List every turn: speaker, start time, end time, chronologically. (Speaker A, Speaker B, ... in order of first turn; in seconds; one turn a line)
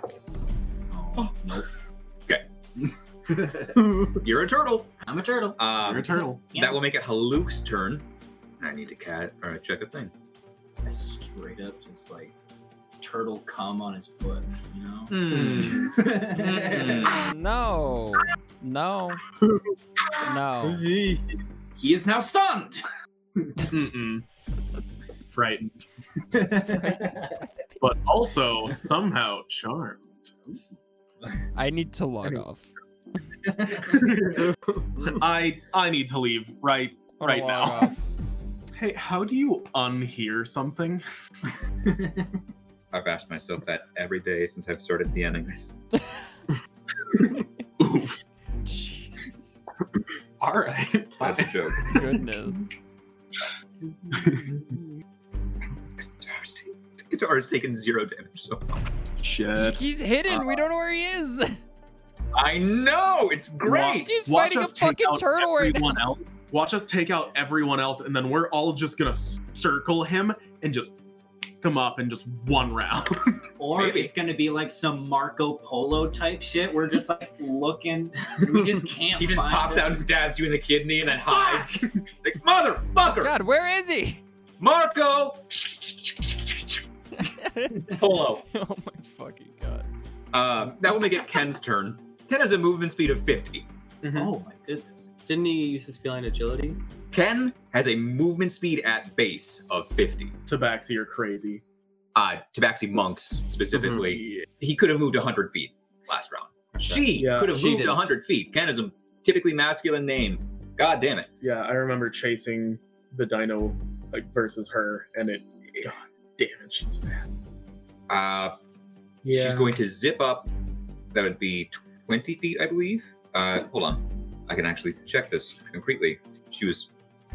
Speaker A: 0.9-1.7
Speaker A: 2.8-4.1
Speaker B: 4.1-4.9
Speaker A: 5.0-5.6
Speaker B: 5.6-8.1
Speaker C: 5.8-6.4
Speaker A: 6.5-6.8
Speaker B: 8.6-10.1
Speaker A: 10.8-12.3
Speaker A: 13.0-17.2
Speaker B: 15.1-17.2
Speaker C: 15.3-15.9
Speaker D: 17.0-19.2
Speaker D: 20.2-20.9
Speaker E: 20.6-21.4
Speaker A: 21.8-22.9
Speaker C: 23.6-24.2
Speaker C: 25.3-25.8
Speaker A: 26.3-27.3
Speaker D: 26.5-27.8
Speaker C: 27.8-30.5
Speaker D: 31.5-32.7
Speaker A: 33.5-34.1
Speaker C: 33.8-34.5
Speaker C: 35.0-38.0
Speaker D: 37.2-38.0
Speaker C: 38.7-41.0
Speaker A: 41.8-42.3
Speaker B: 42.9-45.8
Speaker C: 47.8-48.2
Speaker D: 48.6-49.6
Speaker C: 50.4-52.2
Speaker B: 51.2-52.0
Speaker D: 51.8-52.7
Speaker C: 54.2-54.4
Speaker B: 55.7-58.8
Speaker C: 59.2-59.8
Speaker D: 59.5-61.6
Speaker B: 60.3-60.6
Speaker B: 62.3-64.2
Speaker C: 63.6-70.9
Speaker D: 64.0-66.0
Speaker C: 71.6-73.5
Speaker A: 73.6-80.0
Speaker B: 73.7-74.1
Speaker B: 79.2-83.3
Speaker D: 83.2-84.2
Speaker B: 84.6-86.8
Speaker D: 87.2-89.9
Speaker B: 87.9-88.4
Speaker B: 90.3-93.7
Speaker C: 94.0-94.3
Speaker A: 94.1-95.1
Speaker E: 95.3-96.8
Speaker B: 97.1-100.3
Speaker C: 100.5-101.6
Speaker B: 102.2-111.3
Speaker C: 104.1-104.5
Speaker E: 106.8-108.0
Speaker C: 107.1-107.6
Speaker C: 111.4-117.3
Speaker B: 118.1-118.5
Speaker C: 119.2-119.8
Speaker B: 119.3-120.5
Speaker B: 121.1-126.9